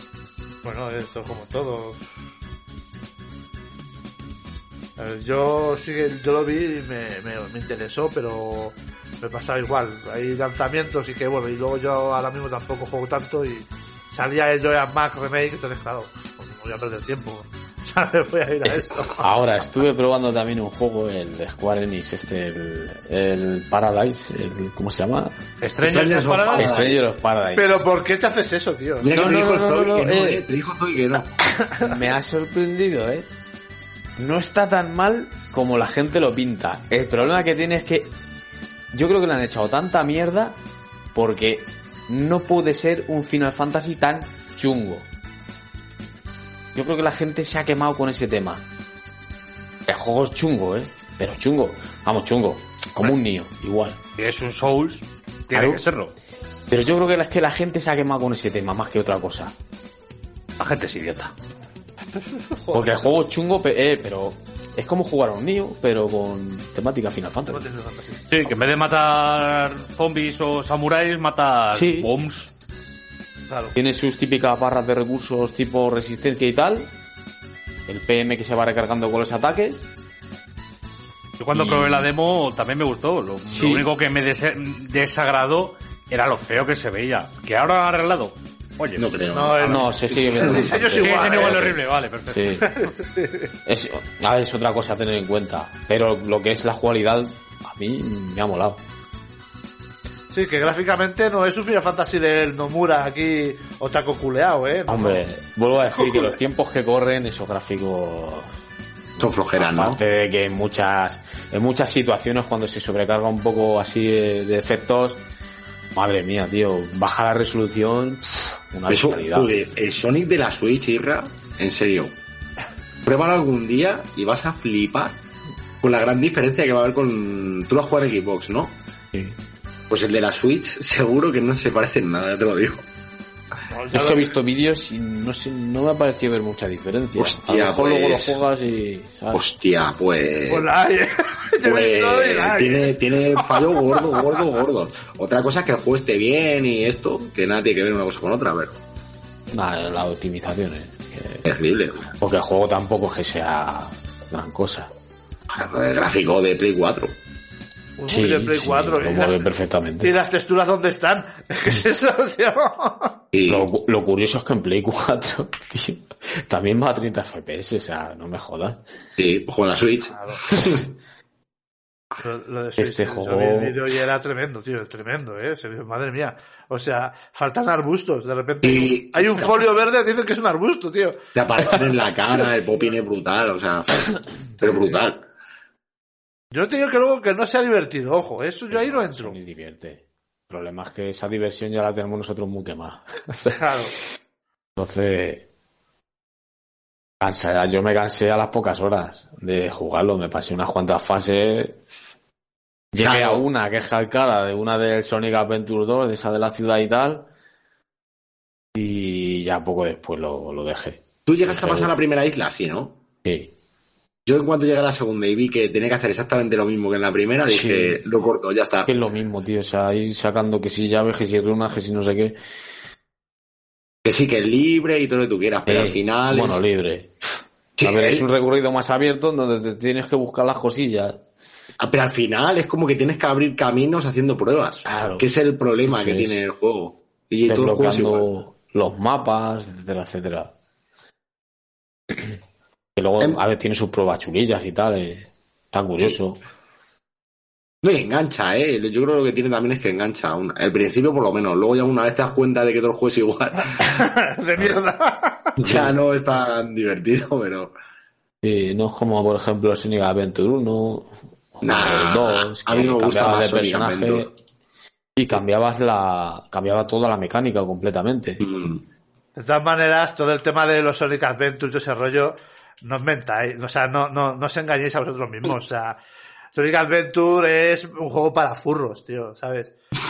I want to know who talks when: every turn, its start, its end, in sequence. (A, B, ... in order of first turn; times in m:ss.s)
0:00.6-0:02.0 A
0:05.0-0:19.3 A
0:19.2-0:25.3 B
0:25.6-0:26.8 C
0:25.8-0:27.0 D
0:26.5-0:27.8 B
0:27.5-0:29.1 A
0:29.0-0:31.3 D
0:29.1-0:30.4 B
0:31.6-0:32.0 A
0:31.8-0:33.3 B
0:34.2-0:38.1 B
0:38.9-0:40.6 B
0:41.1-0:45.0 B
0:46.7-0:48.6 B
0:49.9-0:54.0 B
0:54.2-0:56.1 C
0:55.5-0:55.8 B
0:56.7-0:59.5 B
1:00.6-1:01.3 C
1:02.2-1:03.1 A
1:02.7-1:07.6 B
1:07.5-1:08.4 A
1:08.3-1:12.5 C
1:11.7-1:12.1 B
1:13.5-1:13.7 A
1:13.7-1:16.9 B
1:17.9-1:19.8 B
1:21.4-1:29.1 C
1:21.5-1:22.0 B
1:23.5-1:23.9 B
1:29.0-1:30.7 D
1:29.3-1:31.6 A
1:29.6-1:32.7 B
1:30.9-1:32.5 C
1:32.6-1:33.5 A
1:33.6-1:38.8 B
1:40.3-1:45.2 A
1:44.9-1:48.5 B
1:49.2-1:50.0 D
1:49.6-1:55.2 B
1:55.9-1:59.5 B
1:58.9-2:02.1 D
2:03.0-2:05.2 D
2:05.8-2:08.7 D
2:09.9-2:12.8 D
2:13.7-2:14.3 A
2:13.9-2:19.4 B
2:17.2-2:18.4 D
2:19.3-2:20.7 D
2:20.5-2:23.8 A
2:21.6-2:28.8 D
2:29.5-2:31.4 B
2:31.4-2:32.1 D
2:32.2-2:34.9 B
2:35.5-2:37.1 D
2:38.0-2:39.5 A
2:38.1-2:40.1 B
2:40.0-2:43.2 A
2:43.3-2:43.7 D
2:43.5-2:48.8 B
2:49.2-2:50.9 D
2:50.1-2:50.4 A
2:52.2-3:01.2 A
2:52.8-2:53.8 B
2:58.6-2:59.5 D
3:01.3-3:05.2 D
3:06.5-3:09.4 A
3:08.7-3:13.6 B
3:13.5-3:13.9 A
3:14.8-3:15.4 B
3:17.2-3:21.8 B
3:22.9-3:27.2 B
3:23.0-3:23.4 D
3:28.7-3:31.9 B
3:31.2-3:33.0 D
3:33.2-3:33.5 B
3:34.2-3:38.9 D
3:37.5-3:38.0 B
3:38.8-3:42.3 B
3:44.0-3:46.6 D
3:45.7-3:47.1 B
3:47.8-3:48.2 D
3:47.8-3:51.2 B
3:51.8-3:58.3 D
3:54.9-3:55.2 B
3:55.9-3:56.4 B
3:57.5-4:00.5 B
4:03.0-4:06.4 B
4:07.8-4:13.8 D
4:13.8-4:15.5 A
4:15.6-4:17.7 D
4:15.6-4:15.9 B
4:18.4-4:24.3 B
4:21.6-4:24.3 D
4:25.2-4:28.4 B
4:28.4-4:28.8 D
4:29.4-4:36.0 A
4:36.5-4:39.7 A